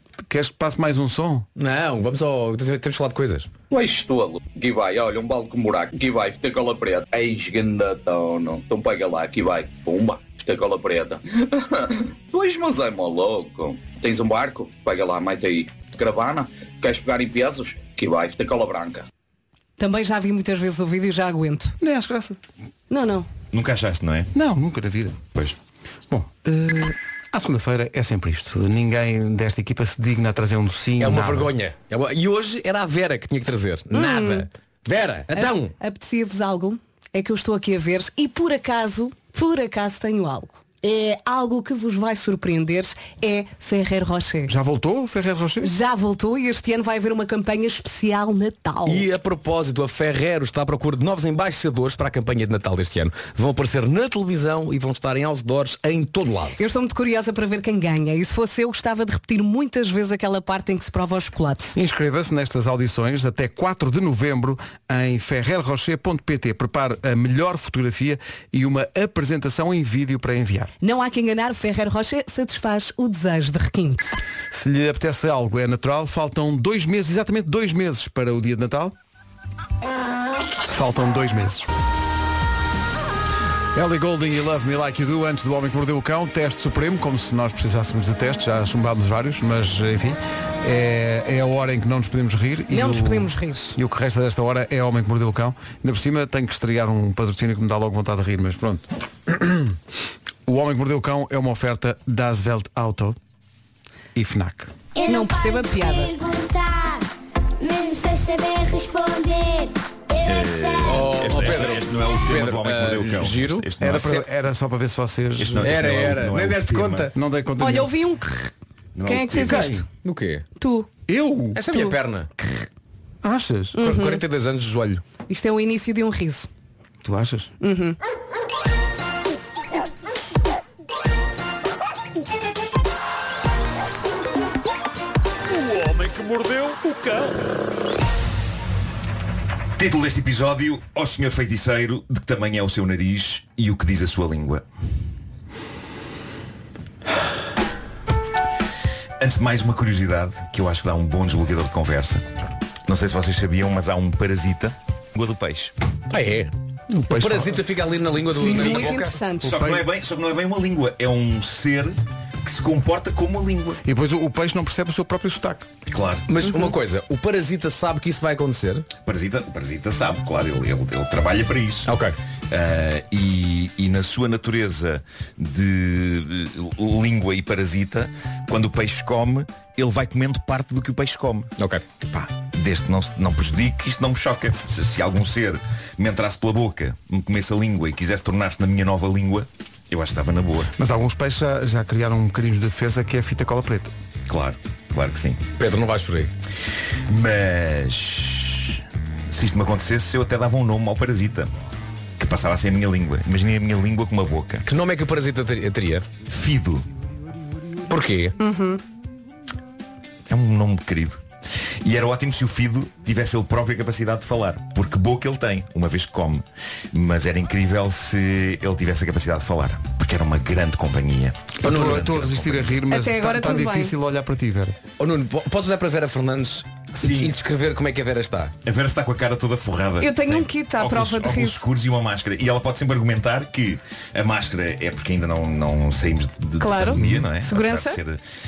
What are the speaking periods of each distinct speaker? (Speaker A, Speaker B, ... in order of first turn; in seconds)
Speaker A: 0.2-1.5, 21.8-22.4, 24.3-25.2, 26.1-31.5, 44.5-45.7, 61.8-70.7, 74.5-79.0, 80.7-81.7, 83.7-99.8, 100.5-103.2, 104.2-104.7, 113.8-115.9, 117.2-118.0, 121.1-121.6, 123.2-123.9, 127.0-127.5, 135.8-137.2, 156.9-157.6, 159.4-159.8, 163.8-165.7, 190.8-193.9, 221.6-224.8
Speaker B: 1.6-3.5, 31.0-35.7, 48.9-56.6, 110.8-113.7, 115.6-117.1, 119.4-120.5, 121.5-122.3, 123.8-125.0, 156.1-156.5, 157.1-159.2, 166.3-168.9, 171.9-172.2, 181.6-181.8, 195.6-196.3, 204.7-206.1, 207.9-208.4, 221.6-222.1, 225.0-228.5
Speaker C: 3.7-19.1
Speaker D: 19.8-21.8, 22.9-23.3, 33.9-34.5, 35.3-44.5, 45.6-49.1, 56.6-61.8, 70.8-74.2, 92.7-93.8, 105.0-106.1, 117.6-118.5, 119.0-119.9, 120.6-120.9, 123.8-124.2, 125.3-126.5, 127.6-128.0, 158.3-159.6, 208.4-208.8, 222.9-223.9, 230.0-231.7, 236.6-238.0
Speaker E: 23.5-24.3, 110.2-114.2, 115.4-117.1, 119.0-119.8, 139.8-144.7, 149.2-152.2, 152.9-155.7, 159.4-163.8, 165.9-166.3, 169.1-171.9, 172.5-181.5, 182.0-190.7, 194.3-195.4, 197.1-201.5, 202.2-204.7, 206.3-206.9, 210.3-211.2, 211.8-222.8, 227.0-227.3, 228.7-238.2
Speaker F: 105.0-107.1, 107.6-111.1